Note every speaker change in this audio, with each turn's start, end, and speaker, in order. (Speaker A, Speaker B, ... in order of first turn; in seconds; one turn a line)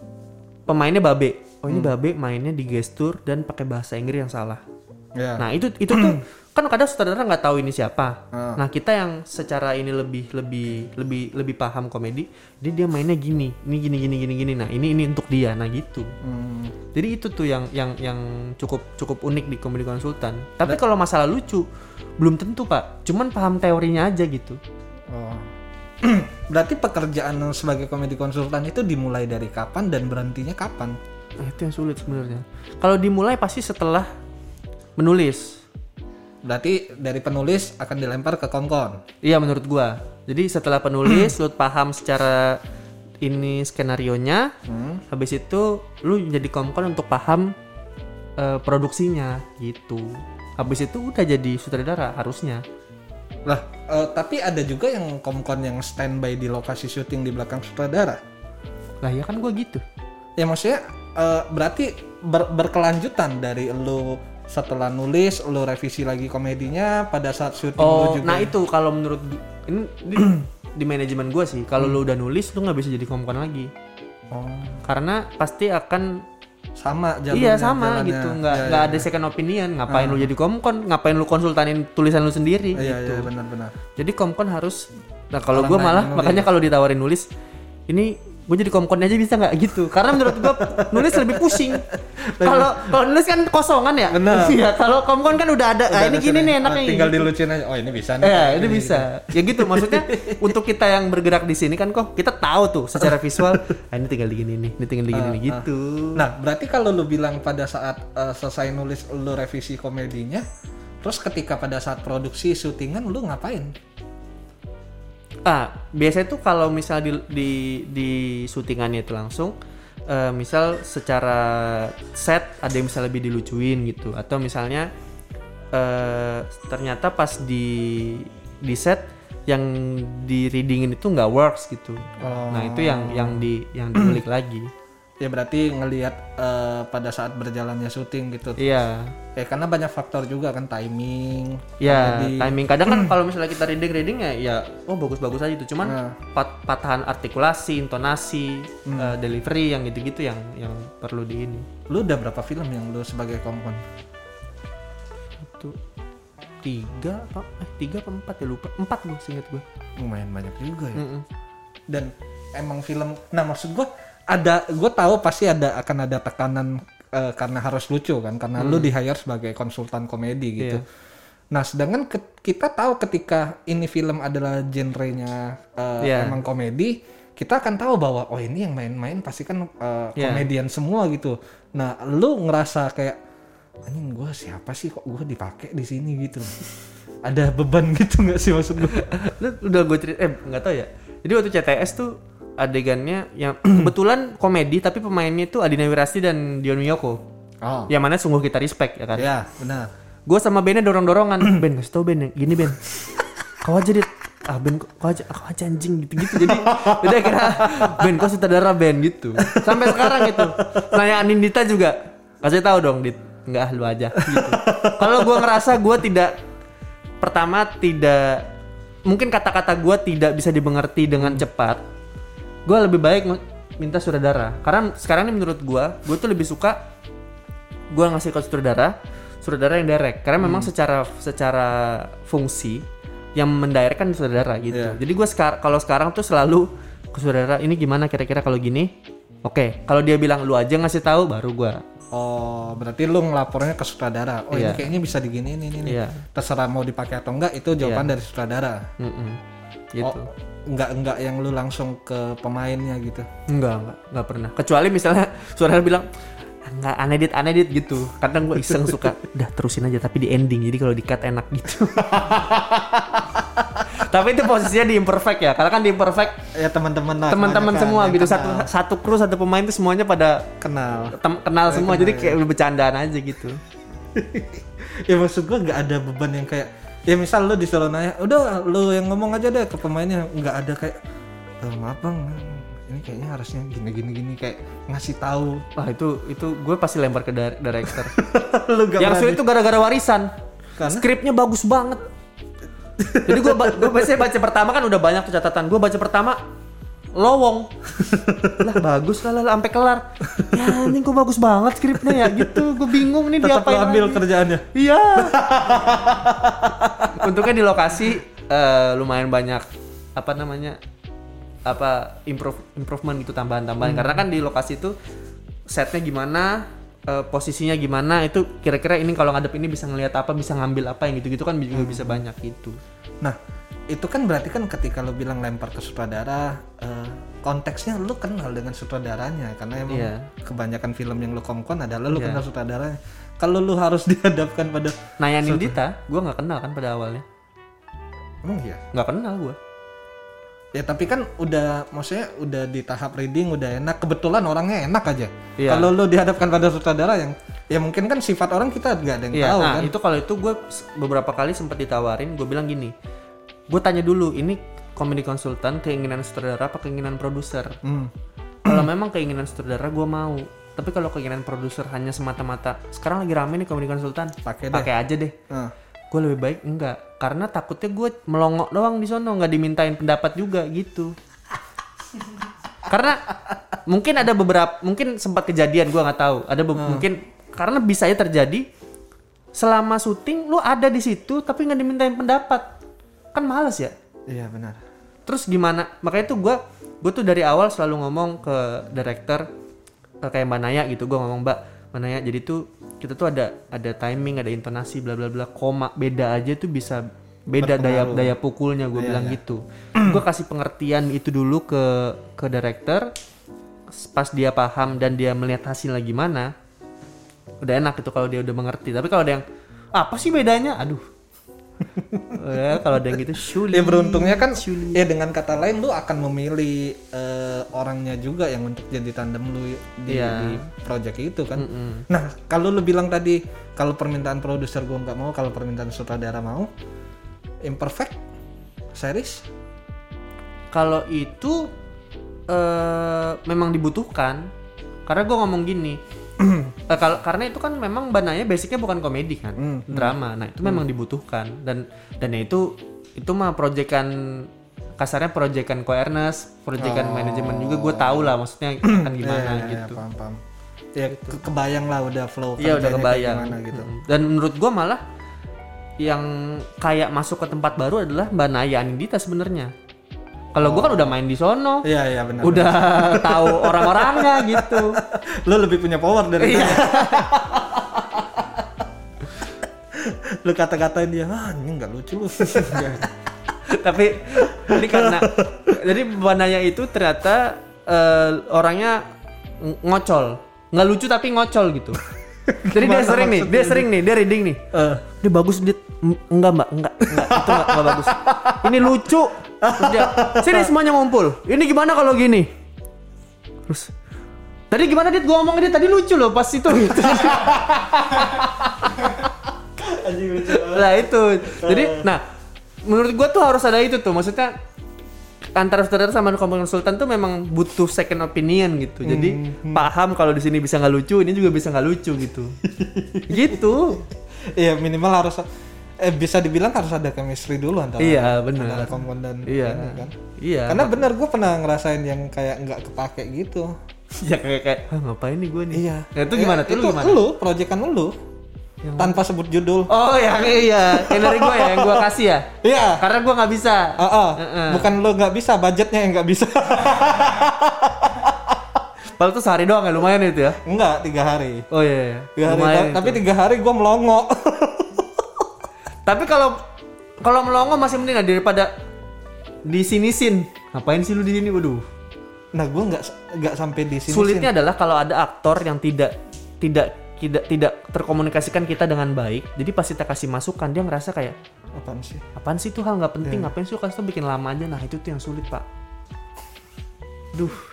Speaker A: 0.7-4.6
Speaker B: 5.2-6.2
Speaker A: 5.4-16.1
Speaker B: 8.3-8.6
Speaker B: 16.2-16.8
Speaker A: 16.9-21.7
Speaker A: 22.2-24.6
Speaker B: 25.1-25.5
Speaker B: 26.0-31.0
Speaker A: 31.4-34.1
Speaker A: 35.0-35.6
Speaker B: 36.4-39.0
Speaker A: 39.2-42.6
Speaker A: 43.2-44.5
Speaker B: 44.7-45.0
Speaker A: 45.1-47.5
Speaker A: 48.4-52.6
Speaker B: 53.5-58.2
Speaker A: 59.0-59.8
Speaker B: 60.4-68.5
Speaker A: 67.8-73.7
Speaker B: 74.3-74.8
Speaker A: 74.8-76.3
Speaker B: 76.8-79.1
Speaker A: 77.3-83.3
Speaker B: 79.9-80.3
Speaker B: 82.8-83.8
Speaker A: 84.0-87.3
Speaker B: 85.5-86.5
Speaker A: 87.9-91.8
Speaker B: 90.2-92.9
Speaker A: 92.4-97.3
Speaker B: 94.1-94.6
Speaker B: 95.9-100.5
Speaker A: 98.2-106.2
Speaker B: 103.0-103.6
Speaker B: 105.1-110.5
Speaker B: 111.0-113.7
Speaker A: 115.5-119.6
Speaker A: 120.1-124.9
Speaker A: 125.7-134.7
Speaker B: 132.2-134.2
Speaker B: 135.2-138.6
Speaker A: 138.6-139.1
Speaker B: 139.4-143.1
Speaker A: 141.8-151.7
Speaker B: 145.8-146.2
Speaker B: 148.9-149.2
Speaker B: 151.9-153.8
Speaker A: 155.4-155.8
Speaker A: 156.6-159.6
Speaker B: 160.0-161.0
Speaker A: 161.0-161.3
Speaker B: 161.9-170.8
Speaker A: 168.6-168.9
Speaker B: 171.5-183.2
Speaker A: 176.0-176.4
Speaker A: 180.2-180.5
Speaker B: 183.9-186.6
Speaker B: 187.2-189.1
Speaker A: 188.9-197.2
Speaker B: 197.6-197.9
Speaker A: 197.9-199.3
Speaker B: 199.2-199.9
Speaker A: 200.3-202.8
Speaker A: 203.6-216.3
Speaker B: 206.3-208.1
Speaker B: 209.4-210.9
Speaker B: 214.2-215.6
Speaker A: 217.2-218.5
Speaker A: 219.1-221.8
Speaker A: 222.7-226.9
Speaker A: 227.9-238.9
Speaker B: 230.4-230.7
Speaker B: 234.7-235.0
Speaker A: 239.4-241.8
Speaker B: 242.1-248.9
Speaker A: 244.5-244.9
Speaker A: 245.8-246.2
Speaker A: 247.8-248.1
Speaker A: 249.0-249.4
Speaker A: 249.9-250.3
Speaker B: 250.0-253.3
Speaker A: 253.5-256.1
Speaker A: 256.6-266.4
Speaker B: 262.0-262.8
Speaker B: 266.5-268.7
Speaker A: 267.3-270.5
Speaker B: 270.6-271.2
Speaker A: 271.1-273.6
Speaker B: 271.7-272.4
Speaker B: 274.1-281.0
Speaker B: 281.6-285.7
Speaker A: 285.8-288.1
Speaker B: 287.9-289.4
Speaker A: 289.0-290.3
Speaker B: 290.8-291.1
Speaker A: 290.8-292.0
Speaker B: 293.0-294.1
Speaker A: 293.2-296.4
Speaker A: 297.1-297.7
Speaker B: 298.0-298.7
Speaker A: 298.6-305.4
Speaker B: 300.3-300.9
Speaker B: 302.0-302.8
Speaker B: 303.4-307.4
Speaker A: 307.2-309.6
Speaker A: 310.2-310.8
Speaker A: 311.6-315.0
Speaker B: 313.8-314.2
Speaker A: 315.7-322.8
Speaker B: 321.7-322.2
Speaker B: 323.9-335.8
Speaker A: 329.9-330.3
Speaker A: 332.1-332.4
Speaker A: 335.2-337.2
Speaker B: 338.4-338.8
Speaker A: 338.9-339.6
Speaker B: 340.7-349.9
Speaker A: 345.6-345.9
Speaker A: 349.3-352.9
Speaker A: 353.7-357.8
Speaker B: 357.8-358.1
Speaker A: 358.6-365.4
Speaker B: 364.4-364.9
Speaker A: 366.1-371.1
Speaker A: 372.9-373.2
Speaker A: 373.9-378.7
Speaker B: 376.8-377.1
Speaker A: 379.5-382.7
Speaker A: 383.3-383.9
Speaker B: 384.3-384.8
Speaker A: 385.3-389.5
Speaker A: 390.2-403.1
Speaker B: 397.6-398.3
Speaker B: 398.9-399.4
Speaker B: 400.0-400.2
Speaker A: 403.9-406.5
Speaker A: 407.6-409.4
Speaker A: 409.9-411.0
Speaker B: 411.9-413.0
Speaker A: 412.3-415.0
Speaker B: 413.7-426.7
Speaker A: 420.1-420.6
Speaker A: 421.6-422.1
Speaker B: 427.6-428.2
Speaker B: 428.9-429.5
Speaker A: 430.7-431.7
Speaker A: 432.5-434.5
Speaker A: 435.1-436.0
Speaker B: 436.4-436.8
Speaker A: 436.9-450.0
Speaker B: 439.6-440.8
Speaker B: 446.8-450.4
Speaker B: 451.0-453.9
Speaker A: 451.1-451.4
Speaker A: 452.6-455.0
Speaker A: 456.0-459.7
Speaker A: 460.5-461.9
Speaker B: 460.6-461.2
Speaker B: 461.8-468.6
Speaker A: 462.4-465.0
Speaker A: 466.4-467.3
Speaker B: 470.0-473.1
Speaker A: 472.5-473.0
Speaker A: 473.7-479.1
Speaker B: 474.4-475.8
Speaker A: 479.6-482.0
Speaker B: 482.5-483.9
Speaker A: 482.7-484.6
Speaker B: 484.7-485.0
Speaker A: 485.2-492.5
Speaker B: 487.1-489.0
Speaker B: 489.6-490.7
Speaker A: 493.7-493.9
Speaker A: 494.7-499.2
Speaker B: 496.9-502.1
Speaker A: 500.4-502.2
Speaker A: 502.8-504.6
Speaker A: 505.6-512.5
Speaker B: 509.0-509.9
Speaker B: 512.6-514.0
Speaker A: 513.3-514.0
Speaker B: 514.6-515.4
Speaker B: 516.0-520.1
Speaker A: 518.0-521.0
Speaker B: 520.7-523.7
Speaker A: 524.1-527.2
Speaker B: 525.7-528.1
Speaker A: 528.8-529.2
Speaker B: 529.0-529.9
Speaker A: 529.9-534.9
Speaker B: 530.8-533.0
Speaker B: 534.0-538.6
Speaker A: 539.2-540.6
Speaker B: 540.6-541.7
Speaker A: 541.7-543.2
Speaker B: 542.4-545.3
Speaker A: 546.0-546.6
Speaker A: 547.2-548.7
Speaker A: 549.7-551.9
Speaker B: 552.5-554.5
Speaker A: 554.1-561.4
Speaker B: 561.8-562.2
Speaker A: 562.4-565.7
Speaker B: 563.2-563.5
Speaker A: 567.3-567.6